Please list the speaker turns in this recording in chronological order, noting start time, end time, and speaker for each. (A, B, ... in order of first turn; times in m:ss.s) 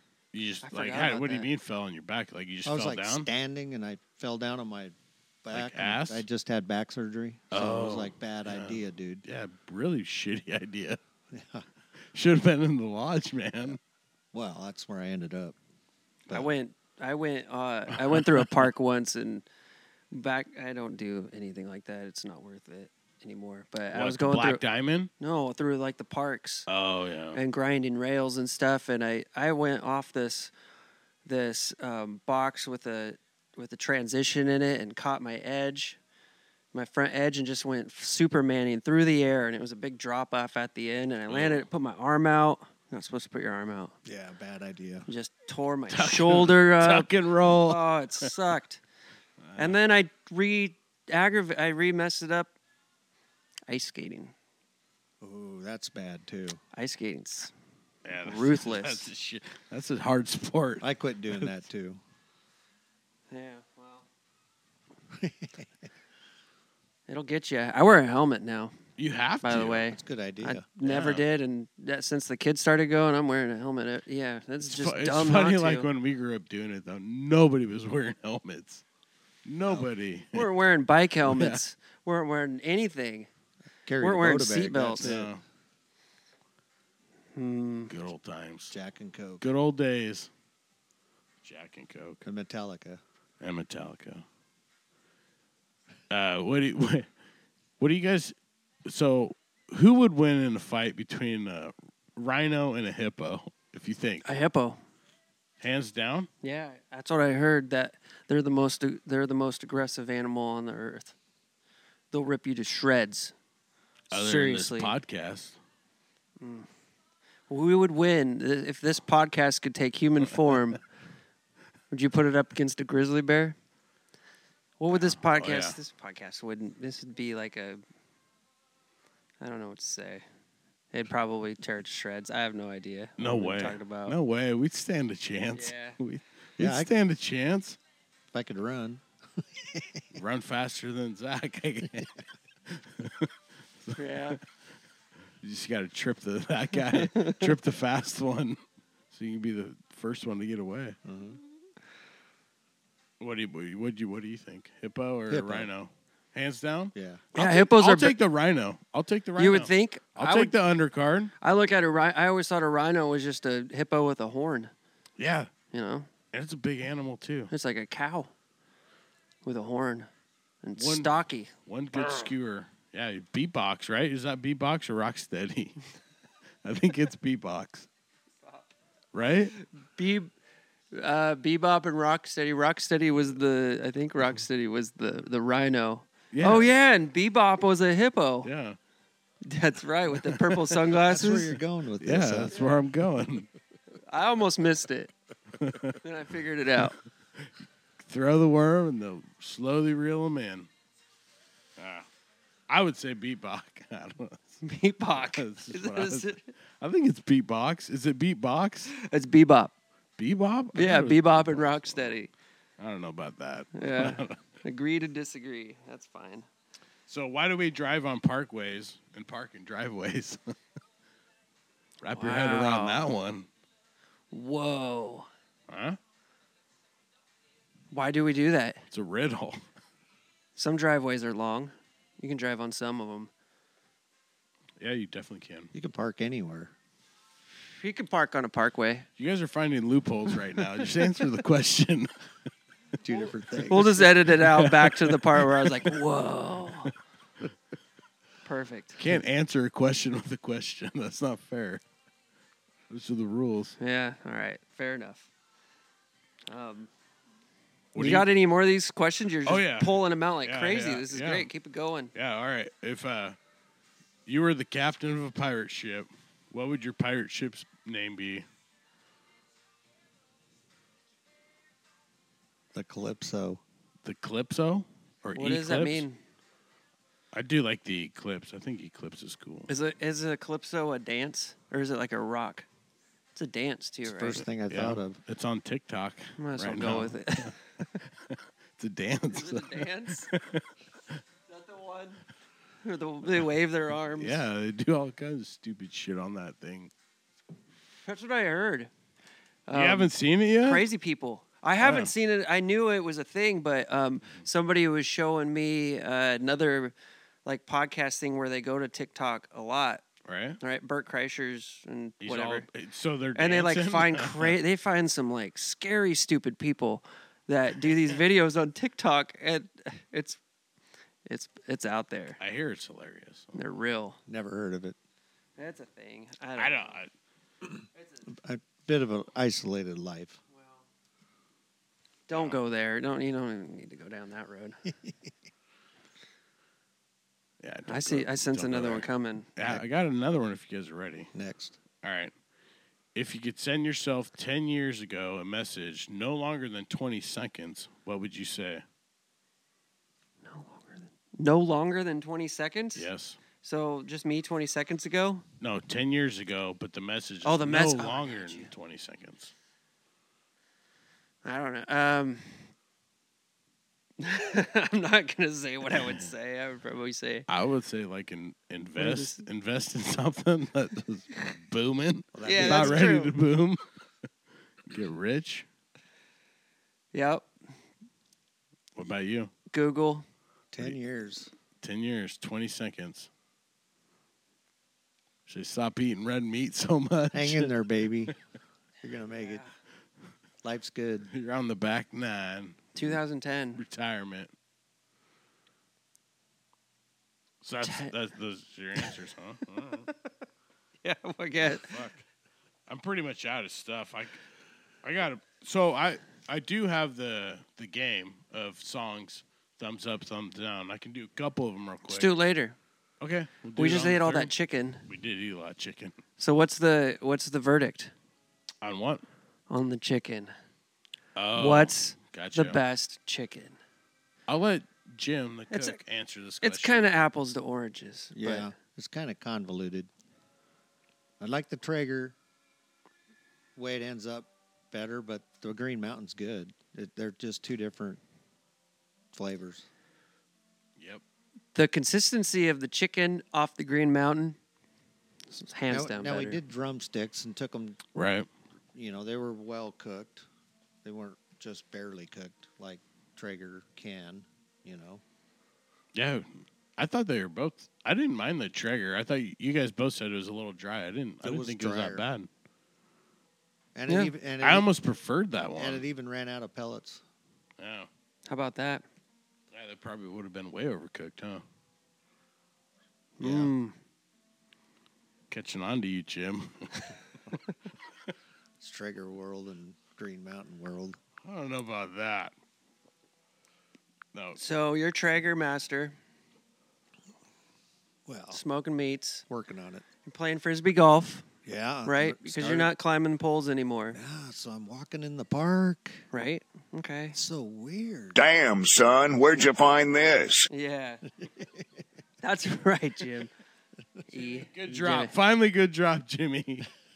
0:00.3-0:03.3 A
0:00.6-0:01.5 B
0:02.6-0:09.2 C
0:05.5-0:06.2 A
0:07.5-0:11.0 A
0:11.3-0:11.6 C
0:12.1-0:13.8 A
0:14.3-0:15.6 C
0:16.3-0:19.4 B
0:18.0-0:18.5 A
0:20.1-0:24.6 B
0:23.9-0:25.1 A
0:25.2-0:26.7 B
0:26.7-0:27.4 A
0:27.3-0:30.5 B
0:31.2-0:36.0 B
0:36.7-0:43.9 B
0:41.3-0:41.6 A
0:44.0-0:45.1 C
0:45.1-0:48.8 B
0:45.9-0:48.3 A
0:49.5-0:49.7 A
0:49.6-0:52.5 B
0:53.7-0:54.3 B
0:55.2-0:56.6 C
0:56.7-0:57.5 B
0:58.0-1:01.5 A
0:58.2-0:59.1 B
1:00.8-1:02.0 C
1:03.3-1:04.0 B
1:05.1-1:05.7 C
1:07.1-1:08.8 B
1:09.0-1:09.8 A
1:09.4-1:15.9 B
1:09.9-1:10.6 C
1:10.8-1:11.2 A
1:14.6-1:18.8 A
1:19.4-1:20.5 A
1:20.3-1:23.3 B
1:21.2-1:21.6 A
1:23.8-1:25.2 C
1:24.0-1:25.3 B
1:25.0-1:25.4 A
1:27.3-1:27.9 B
1:27.9-1:28.7 A
1:28.7-1:29.5 C
1:29.4-1:30.3 A
1:31.4-1:32.2 A
1:32.2-1:33.0 C
1:33.4-1:34.2 A
1:36.1-1:37.0 A
1:37.8-1:38.3 A
1:38.8-1:44.2 A
1:44.2-1:44.8 B
1:45.6-1:46.3 A
1:46.4-1:51.1 B
1:52.1-1:53.3 B
1:54.1-1:54.9 B
1:54.1-1:55.6 A
1:56.4-1:56.7 B
1:57.5-2:00.8 B
2:01.9-2:03.6 B
2:04.8-2:07.8 B
2:04.9-2:05.8 A
2:09.4-2:10.2 B
2:10.9-2:14.2 B
2:13.2-2:17.8 A
2:15.5-2:16.0 B
2:16.6-2:16.9 C
2:18.3-2:20.0 C
2:20.1-2:22.1 A
2:22.7-2:23.3 A
2:23.8-2:24.4 A
2:24.0-2:24.4 B
2:25.4-2:28.6 A
2:29.1-2:31.0 A
2:31.0-2:31.4 C
2:33.2-2:41.3 A
2:35.3-2:35.7 C
2:36.9-2:37.2 C
2:37.3-2:38.2 B
2:39.4-2:40.5 B
2:41.4-2:44.7 B
2:45.2-2:45.5 A
2:45.7-2:46.1 B
2:46.3-2:47.5 A
2:47.5-2:48.3 B
2:49.4-2:50.1 B
2:50.6-2:51.5 B
2:50.8-2:51.1 A
2:51.6-2:55.8 A
2:56.6-2:57.9 A
2:59.1-2:59.5 A
2:59.6-3:00.3 B
3:00.9-3:08.5 B
3:06.3-3:06.7 A
3:08.4-3:08.8 A
3:09.4-3:11.5 B
3:10.2-3:10.7 A
3:11.0-3:12.6 C
3:12.0-3:13.5 A
3:14.0-3:15.1 B
3:15.6-3:16.0 A
3:16.0-3:17.0 B
3:18.1-3:20.7 A
3:21.8-3:22.0 A
3:22.7-3:24.6 A
3:24.6-3:26.5 B
3:25.1-3:28.9 A
3:28.9-3:29.7 B
3:30.2-3:32.1 A
3:30.7-3:32.3 B
3:32.8-3:34.4 A
3:33.8-3:36.4 B
3:37.1-3:40.5 A
3:42.0-3:43.5 A
3:42.1-3:43.1 B
3:44.3-3:45.3 B
3:45.7-3:46.0 A
3:47.9-3:48.8 B
3:48.9-3:49.6 A
3:50.6-3:53.3 B
3:54.8-3:55.7 A
3:55.7-3:56.7 C
3:57.7-3:59.0 B
3:59.2-4:02.1 A
4:03.0-4:04.1 C
4:03.7-4:06.9 B
4:04.3-4:05.9 A
4:08.4-4:09.0 B
4:09.0-4:11.8 A
4:12.9-4:13.8 A
4:13.8-4:15.3 B
4:16.5-4:16.9 B
4:17.9-4:18.3 A
4:18.0-4:22.1 B
4:19.4-4:21.5 A
4:22.1-4:23.4 A
4:24.2-4:28.4 A
4:32.7-4:33.6 C
4:34.0-4:36.0 A
4:35.4-4:36.2 B
4:37.3-4:39.7 A
4:39.7-4:42.6 B
4:43.3-4:44.4 B
4:44.0-4:45.2 C
4:44.7-4:51.2 A
4:46.4-4:47.6 B
4:49.3-4:50.3 B
4:51.5-4:52.2 B
4:52.8-4:54.4 B
4:54.1-4:56.9 A
4:58.0-4:58.9 B
4:59.7-5:00.1 B
4:59.7-5:00.9 A
5:00.6-5:06.9 B
5:01.8-5:02.1 A
5:07.4-5:10.0 B
5:10.2-5:10.6 A
5:10.6-5:12.6 B
5:12.2-5:14.6 A
5:13.4-5:20.4 B
5:21.2-5:22.4 B
5:22.4-5:23.6 A
5:23.5-5:24.2 B
5:24.3-5:25.0 C
5:25.6-5:27.0 B
5:26.6-5:27.1 A
5:28.0-5:28.2 B
5:28.3-5:30.4 C
5:30.5-5:30.8 B
5:32.3-5:34.8 B
5:32.3-5:32.6 A
5:37.6-5:41.3 A
5:37.9-5:39.5 B
5:41.3-5:41.8 C
5:42.0-5:42.3 A
5:43.1-5:48.8 A
5:50.5-5:53.1 B
5:52.9-5:53.4 A
5:53.6-5:55.4 B
5:55.6-5:59.5 A
5:57.4-5:58.7 B
6:01.4-6:02.7 B
6:04.2-6:07.5 B
6:07.5-6:13.8 A
6:09.0-6:09.4 B
6:12.3-6:13.1 C
6:12.4-6:13.3 B
6:14.9-6:15.6 A
6:17.1-6:17.5 B
6:19.0-6:19.5 A
6:19.7-6:20.2 B
6:20.7-6:21.5 C
6:21.8-6:23.3 A
6:25.5-6:27.7 A
6:27.3-6:28.3 C
6:29.0-6:29.6 C
6:29.4-6:29.7 B
6:30.6-6:31.3 C
6:31.3-6:33.2 A
6:32.9-6:33.8 B
6:33.8-6:34.5 A
6:37.6-6:40.1 A
6:37.8-6:38.1 B
6:41.0-6:42.0 B
6:41.8-6:42.2 A
6:42.9-6:44.4 A
6:45.0-6:52.3 A
6:52.1-6:52.8 B
6:53.2-6:54.5 A
6:53.8-6:55.0 B
6:55.1-6:56.2 A
6:56.4-6:58.1 B
6:58.8-6:59.2 A
6:59.7-7:00.5 B
7:01.3-7:02.8 A
7:01.6-7:03.8 B
7:04.5-7:07.1 A
7:05.7-7:06.0 B
7:06.6-7:08.7 B
7:08.3-7:10.1 C
7:11.4-7:12.4 C
7:13.8-7:18.2 C
7:19.3-7:19.8 C
7:21.7-7:24.6 B
7:25.5-7:26.6 B
7:25.9-7:28.0 C
7:28.1-7:28.5 A
7:28.9-7:30.5 C
7:31.0-7:35.2 C
7:36.1-7:42.5 A
7:41.4-7:42.2 C
7:43.9-7:44.9 C
7:44.6-7:46.0 A
7:45.7-7:47.2 C
7:47.8-7:48.1 A
7:48.5-7:49.0 B
7:49.7-7:51.6 A
7:53.4-7:53.9 B
7:53.4-7:53.7 C
7:55.5-7:57.1 A
7:58.8-8:01.2 C
8:01.4-8:02.5 A
8:04.6-8:06.2 B
8:08.2-8:08.6 C
8:08.5-8:09.4 B
8:09.5-8:10.0 C
8:10.2-8:11.4 B
8:11.6-8:12.9 C
8:12.0-8:14.2 B
8:14.1-8:16.2 C
8:16.3-8:17.4 B
8:17.3-8:18.4 C
8:18.4-8:20.7 D
8:20.7-8:21.2 B
8:21.4-8:21.8 C
8:22.4-8:23.5 B
8:24.3-8:25.3 B
8:24.3-8:26.9 A